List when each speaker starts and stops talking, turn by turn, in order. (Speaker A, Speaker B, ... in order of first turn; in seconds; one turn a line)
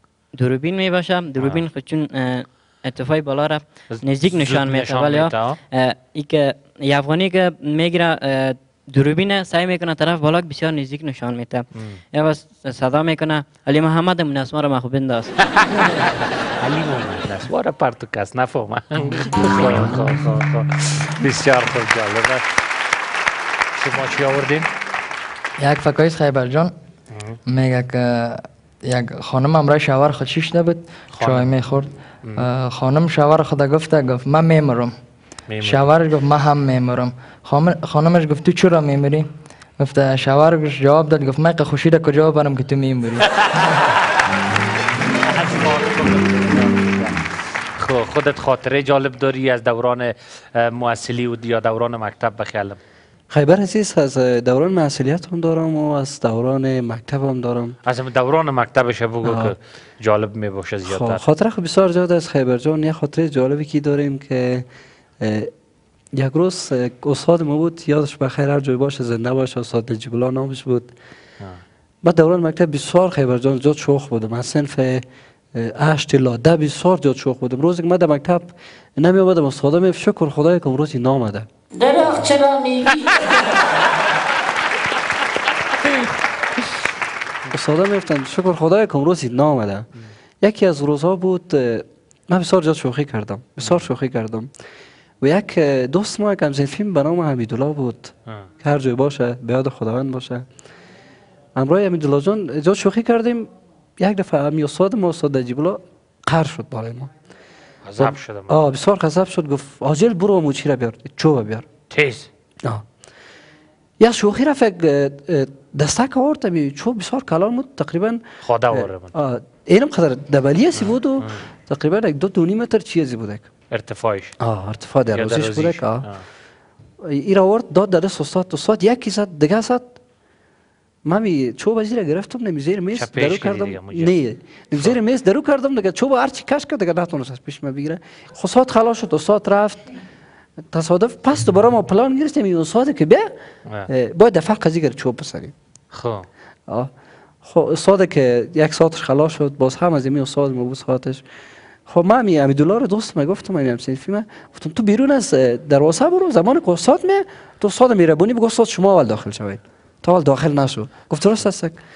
Speaker A: 0.3-15.4
Speaker B: 1.4-1.6
Speaker B: 3.9-5.6
Speaker B: 15.6-16.0
Speaker B: 16.6-22.4
Speaker B: 23.8-24.7
Speaker C: 25.6-26.7
Speaker B: 27.1-27.4
Speaker C: 27.5-34.9
Speaker B: 31.1-31.5
Speaker B: 32.2-32.5
Speaker B: 35.5-35.9
Speaker C: 35.6-39.2
Speaker C: 39.8-43.3
Speaker B: 43.4-43.9
Speaker B: 45.2-47.2
Speaker B: 47.8-52.8
Speaker D: 53.3-57.8
Speaker B: 57.9-61.2
Speaker D: 59.2-59.5
Speaker D: 60.9-64.7
Speaker D: 65.2-65.5
Speaker D: 66.1-70.9
Speaker D: 72.0-75.0
Speaker D: 75.5-81.5
Speaker A: 81.8-83.3
Speaker D: 87.5-89.9
Speaker D: 90.4-94.5
Speaker B: 93.6-93.9
Speaker D: 95.2-100.4
Speaker D: 101.5-107.1
Speaker B: 107.8-108.6
Speaker D: 108.0-111.7
Speaker B: 111.9-112.3
Speaker D: 114.0-123.5
Speaker B: 118.4-119.1
Speaker B: 120.7-121.4
Speaker B: 123.7-124.3
Speaker D: 124.4-126.1
Speaker B: 125.1-126.2
Speaker D: 127.0-130.0
Speaker D: 131.1-139.8
Speaker B: 132.9-134.1
Speaker D: 140.7-143.3
Speaker D: 143.9-145.5
Speaker B: 145.9-146.3
Speaker D: 147.4-151.2
Speaker D: 151.9-161.8